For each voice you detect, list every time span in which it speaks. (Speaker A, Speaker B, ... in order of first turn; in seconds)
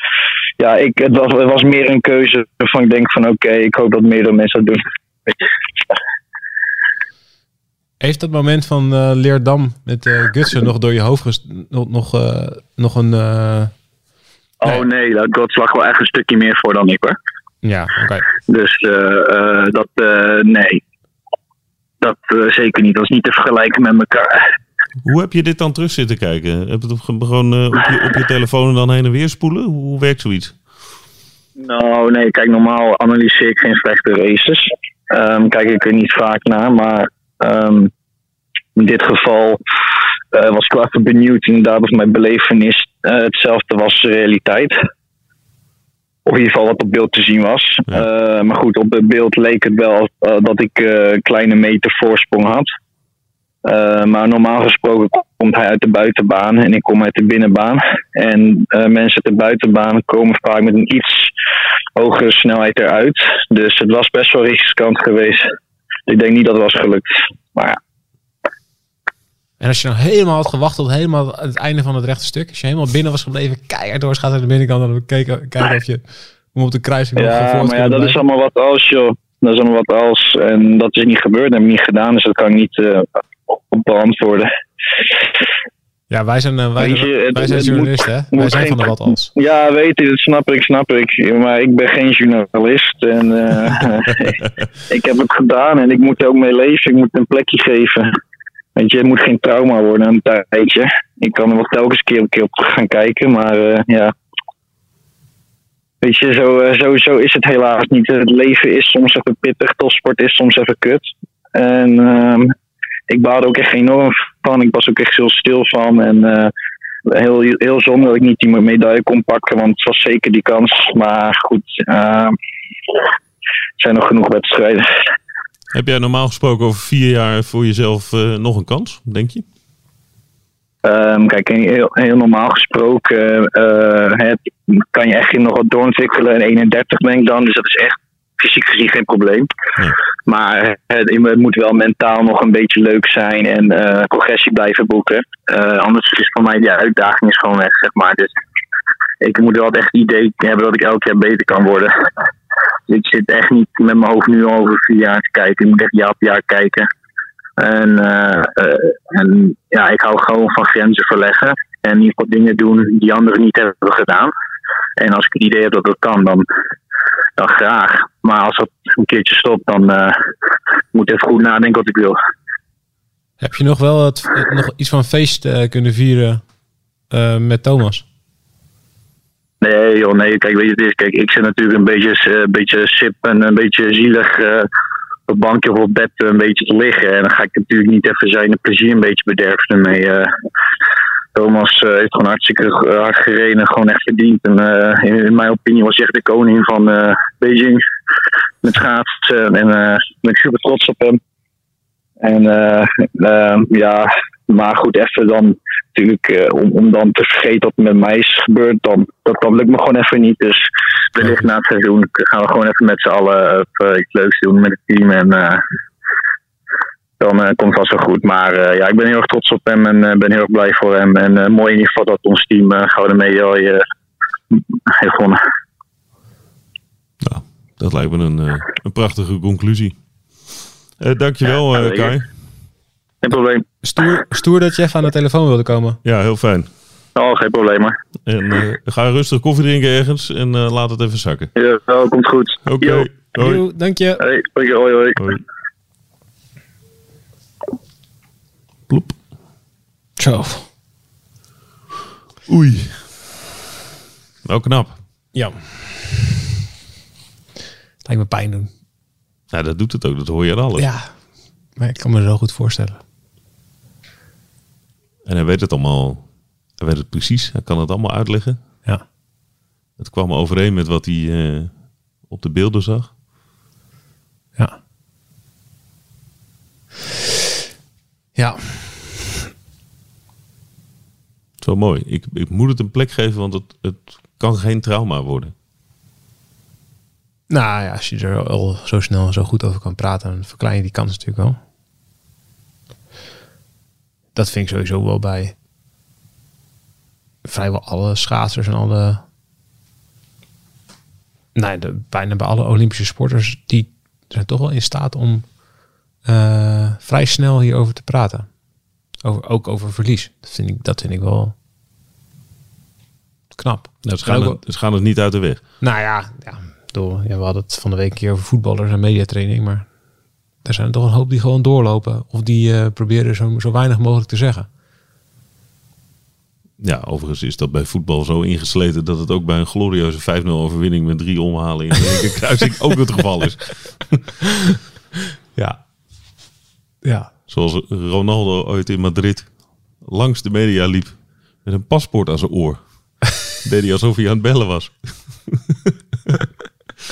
Speaker A: 0.6-5.4, 14.6-17.2, 18.5-20.8, 22.0-24.5, 31.6-37.9, 38.8-39.6, 40.3-44.8, 46.2-52.7, 53.6-61.3, 62.0-65.4, 66.1-67.8, 77.2-84.5, 86.8-98.1, 98.8-104.1, 106.0-112.5, 113.1-116.5, 117.1-122.3, 123.8-124.9, 130.8-139.5, 140.2-148.3, 149.2-151.9, 152.9-156.9, 157.6-164.3, 165.0-166.4, 167.4-170.2, 170.9-172.2, 179.6-184.7, 185.3-190.3, 191.3-197.8, 198.6-201.2, 202.2-210.6, 211.1-215.6, 217.2-223.8, 224.5-225.4, 231.6-232.1, 233.2-233.7, 237.2-237.9, 241.6-243.1, 244.2-245.4
Speaker B: 8.0-13.7, 17.6-18.3, 69.6-78.2, 86.1-89.3, 173.4-176.4, 177.1-178.0, 233.8-236.0, 243.3-244.2, 250.2-250.7, 255.3-256.4, 258.0-258.7, 260.8-261.1, 261.8-263.0, 278.4-279.3, 287.5-291.6, 294.4-295.5, 297.4-299.2, 301.5-305.5, 306.2-308.5, 309.2-311.5, 313.5-314.6, 315.8-319.9, 320.6-324.7, 337.0-337.3
Speaker C: 25.0-30.6, 125.7-129.4, 227.2-230.0, 231.0-232.3, 236.0-236.7, 238.2-241.5, 242.6-243.6, 248.9-249.2, 252.5-253.1, 254.4-255.0, 259.5-260.9, 265.2-266.2, 266.8-268.6, 270.0-273.1, 281.6-285.5, 314.0-315.6, 326.8-334.2, 337.5-345.9